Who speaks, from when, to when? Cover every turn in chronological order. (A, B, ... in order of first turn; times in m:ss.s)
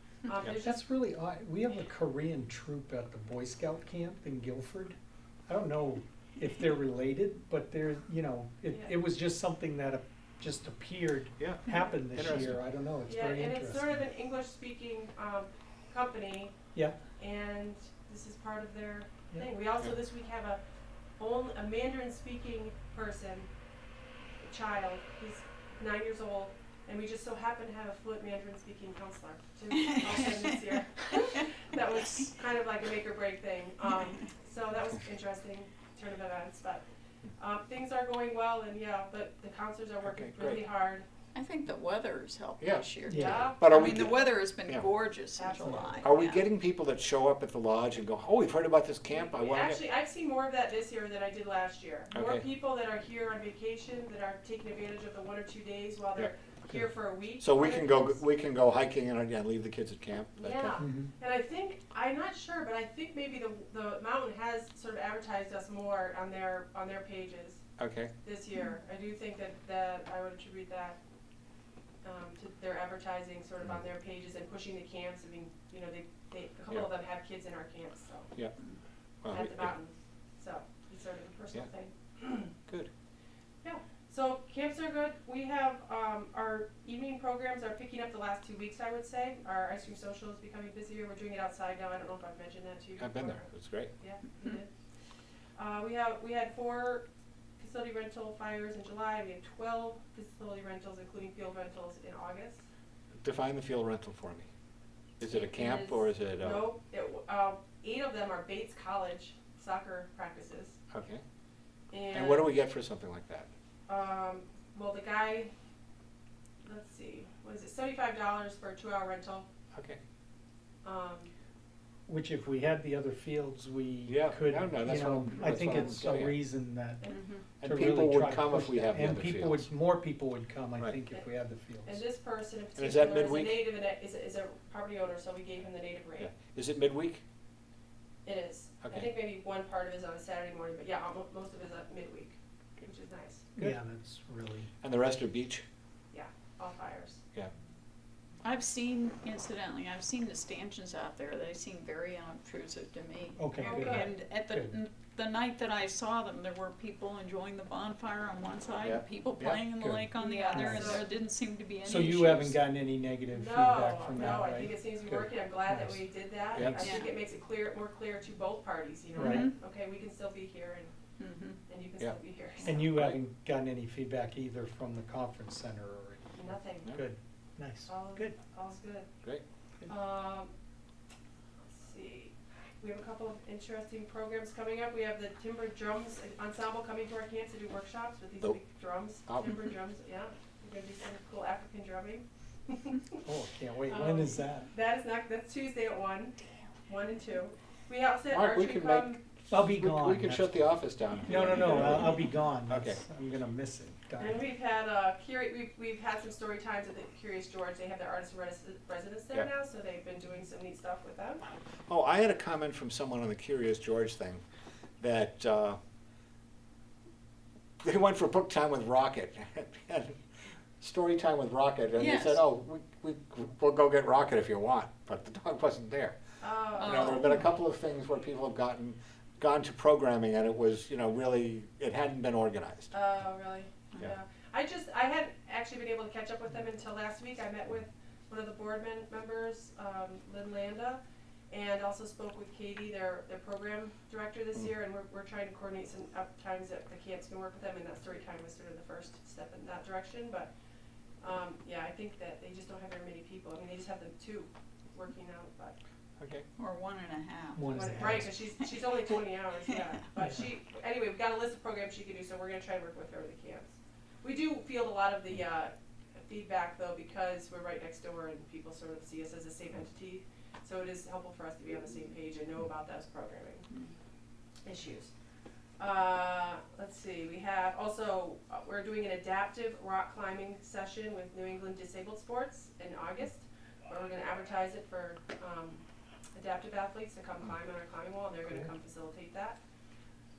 0:00.2-0:00.8 A
0:00.6-0:14.0 B
0:08.7-0:08.9 A
0:11.4-0:12.6 C
0:13.1-0:16.5 A
0:17.2-0:20.6 A
0:21.2-0:23.5 A
0:24.4-0:36.8 A
0:37.4-0:41.0 A
0:40.0-0:40.6 C
0:41.3-0:46.5 D
0:42.6-0:42.9 C
0:43.1-0:43.5 B
0:43.1-0:44.2 A
0:43.4-0:44.8 C
0:45.4-0:46.1 A
0:46.0-0:49.8 C
0:49.1-0:58.2 A
0:52.1-0:52.4 C
0:56.2-1:00.8 C
1:00.4-1:07.6 A
1:00.8-1:01.1 B
1:07.8-1:08.1 C
1:08.2-1:11.0 A
1:12.0-1:18.3 A
1:19.2-1:19.7 C
1:19.3-1:22.5 A
1:23.6-1:34.7 A
1:33.0-1:33.9 C
1:35.6-1:37.0 A
1:37.6-1:42.6 A
1:43.2-1:44.5 C
1:45.2-1:46.7 C
1:45.3-1:50.8 A
1:50.9-1:51.2 C
1:51.9-1:52.5 A
1:52.1-1:53.5 C
1:53.9-1:55.5 A
1:56.6-1:59.5 A
1:59.7-2:00.0 C
2:00.8-2:01.3 A
2:02.1-2:07.0 B
2:04.1-2:06.4 C
2:07.0-2:07.4 D
2:07.6-2:09.7 C
2:07.6-2:12.0 B
2:11.8-2:16.3 A
2:12.8-2:13.6 C
2:16.2-2:17.2 C
2:18.2-2:23.4 A
2:18.8-2:19.1 C
2:23.6-2:24.7 B
2:24.8-2:25.6 C
2:26.1-2:27.2 A
2:28.4-2:42.6 D
2:33.4-2:34.7 B
2:33.6-2:34.1 A
2:38.8-2:39.6 C
2:39.8-2:41.0 B
2:40.2-2:41.0 A
2:41.8-2:46.1 B
2:43.3-2:50.9 A
2:46.5-2:46.9 C
2:46.8-2:47.1 D
2:49.2-2:49.5 B
2:49.2-2:49.5 D
2:51.2-2:51.6 D
2:51.7-2:52.9 A
2:52.6-2:58.3 B
2:52.7-2:53.2 C
2:56.3-2:57.0 A
2:57.9-2:59.1 A
2:59.9-3:00.5 A
3:01.7-3:13.2 A
3:09.3-3:09.6 C
3:13.2-3:14.7 B
3:13.9-3:19.2 A
3:18.3-3:23.0 C
3:19.5-3:20.7 B
3:21.2-3:24.4 B
3:21.3-3:22.0 A
3:24.2-3:31.4 A
3:31.9-3:34.4 C
3:35.0-3:35.8 C
3:37.8-3:40.2 C
3:40.8-3:46.2 C
3:42.0-3:42.4 D
3:46.4-3:47.2 A
3:46.8-3:47.4 D
3:46.8-3:52.9 C
3:52.9-4:10.5 A
4:11.2-4:15.8 A
4:16.2-4:16.4 C
4:16.6-4:18.2 D
4:17.5-4:18.3 B
4:17.7-4:25.7 A
4:26.2-4:33.6 A
4:34.6-4:35.1 A
4:35.8-4:45.8 A
4:46.3-4:49.6 A